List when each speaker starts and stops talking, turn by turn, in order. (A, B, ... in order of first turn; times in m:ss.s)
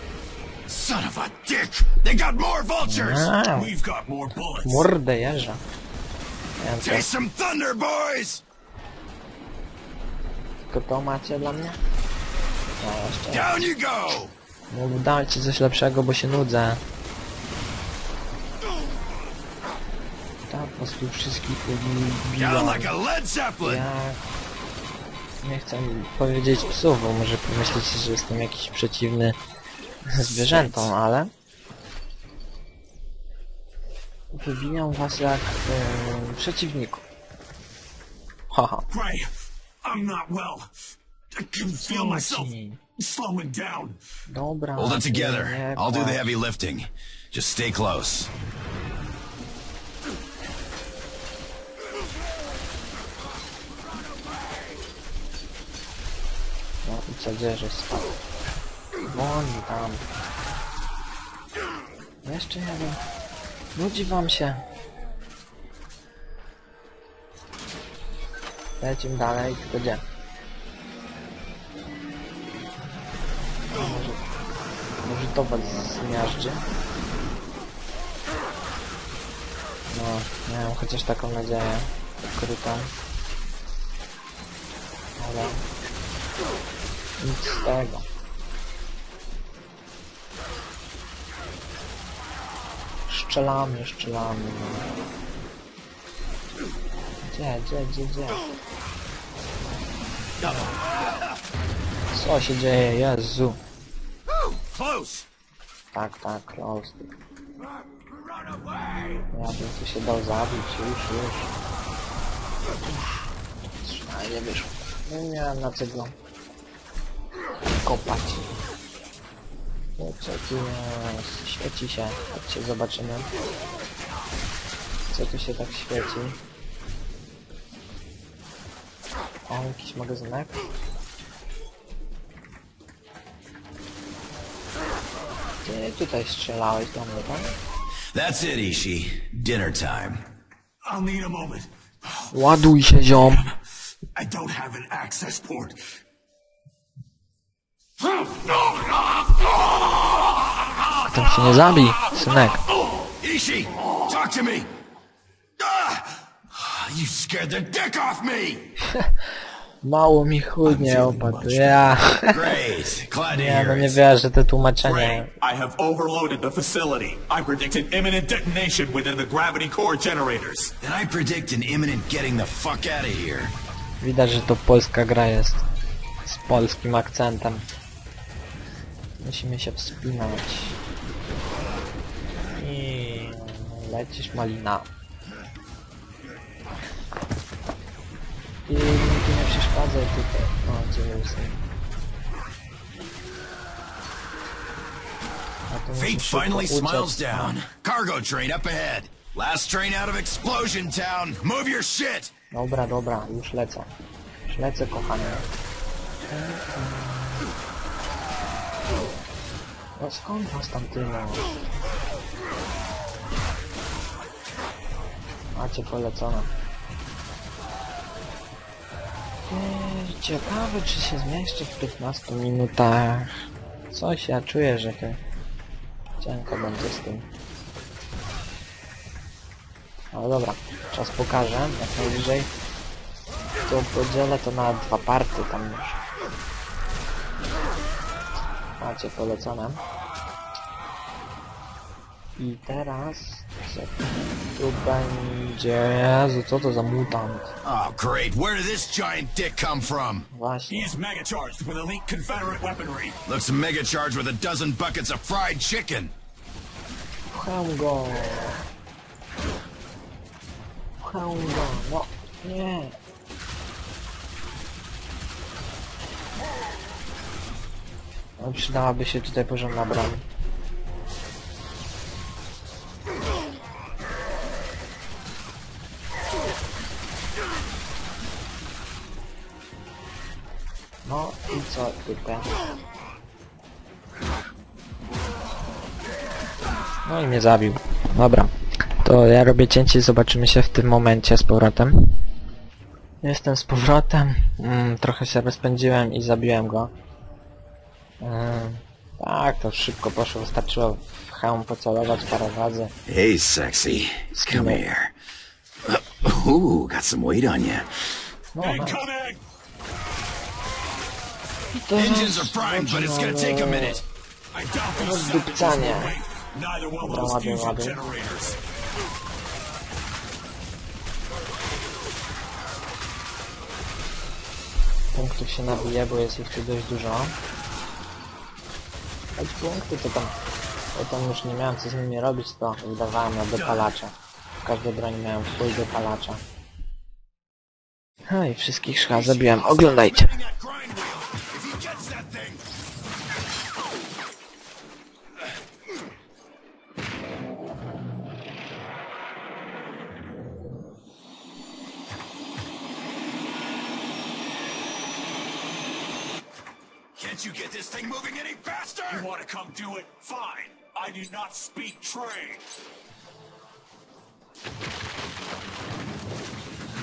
0:00.7-0:03.3 A
0:02.8-0:03.7 B
0:03.5-0:04.9 C
0:04.6-0:05.6 B
0:06.6-0:07.1 B
0:06.8-0:08.4 A
0:10.7-0:11.8 B
0:12.8-0:13.7 B
0:13.3-0:14.3 A
0:14.7-0:16.8 B
0:20.5-0:23.0 B
0:22.4-0:23.9 A
0:23.6-0:24.2 B
0:25.4-0:29.4 B
0:30.0-0:31.3 B
0:30.2-0:30.9 A
0:34.3-0:37.0 B
0:38.5-0:38.8 B
0:38.9-0:39.3 C
0:39.8-0:40.7 C
0:41.3-0:44.0 C
0:41.7-0:42.8 B
0:44.3-0:46.3 B
0:44.8-0:48.3 A
0:56.8-0:58.1 B
0:59.0-1:00.0 B
1:02.2-1:03.0 B
1:03.7-1:04.6 B
1:08.8-1:10.0 B
1:13.7-1:14.2 B
1:15.0-1:16.6 B
1:19.9-1:22.9 B
1:25.2-1:25.6 B
1:27.2-1:28.1 B
1:33.1-1:34.9 B
1:37.2-1:38.4 B
1:42.1-1:43.6 B
1:44.3-1:45.2 A
1:45.9-1:47.1 B
1:49.3-1:51.5 B
1:52.8-1:56.1 B
1:57.8-1:58.5 B
2:00.0-2:03.3 B
2:05.1-2:06.4 B
2:09.5-2:10.6 B
2:15.6-2:17.5 B
2:18.1-2:20.2 A
2:20.8-2:22.3 C
2:22.3-2:23.5 B
2:24.1-2:25.8 C
2:31.0-2:32.6 B
2:33.2-2:34.7 A
2:35.6-2:38.7 A
2:39.8-2:42.4 B
2:40.6-2:42.0 C
2:42.3-2:44.0 A
2:43.3-2:45.3 B
2:44.8-2:50.7 C
2:50.8-2:53.5 A
2:54.0-2:55.6 B
2:56.2-2:57.6 B
2:59.2-3:00.8 B
3:02.5-3:04.9 B
3:08.6-3:11.6 B
3:15.7-3:17.6 B
3:16.0-3:22.3 A
3:22.5-3:23.9 B
3:24.5-3:25.5 B
3:26.2-3:27.5 B
3:30.0-3:31.5 B
3:35.5-3:36.5 B
3:39.5-3:43.4 B
3:43.9-3:45.2 B
3:46.2-3:47.3 B
3:50.1-3:52.5 B
3:53.6-3:56.0 B
3:58.8-3:59.8 B
4:02.4-4:07.5 B
4:07.6-4:10.3 A
4:10.3-4:11.0 B
4:10.7-4:13.2 C
4:13.2-4:16.1 A
4:17.3-4:18.6 B
4:21.0-4:22.9 B
4:28.4-4:30.2 B
4:41.0-4:42.6 B
4:47.0-4:51.9 B
4:53.2-4:56.9 B
4:58.2-5:02.9 B
5:03.0-5:05.1 A
5:04.3-5:04.8 B
5:05.8-5:07.9 A
5:08.5-5:09.0 B
5:08.6-5:09.4 C
5:11.7-5:14.0 B
5:12.0-5:14.0 A
5:14.5-5:18.6 C
5:14.9-5:16.1 B
5:17.0-5:18.0 B
5:25.1-5:27.4 B
5:29.4-5:30.3 B
5:30.9-5:36.4 B
5:33.6-5:33.8 A
5:38.3-5:40.4 B
5:39.1-5:42.6 A
5:57.2-5:59.3 A
5:59.1-6:02.6 C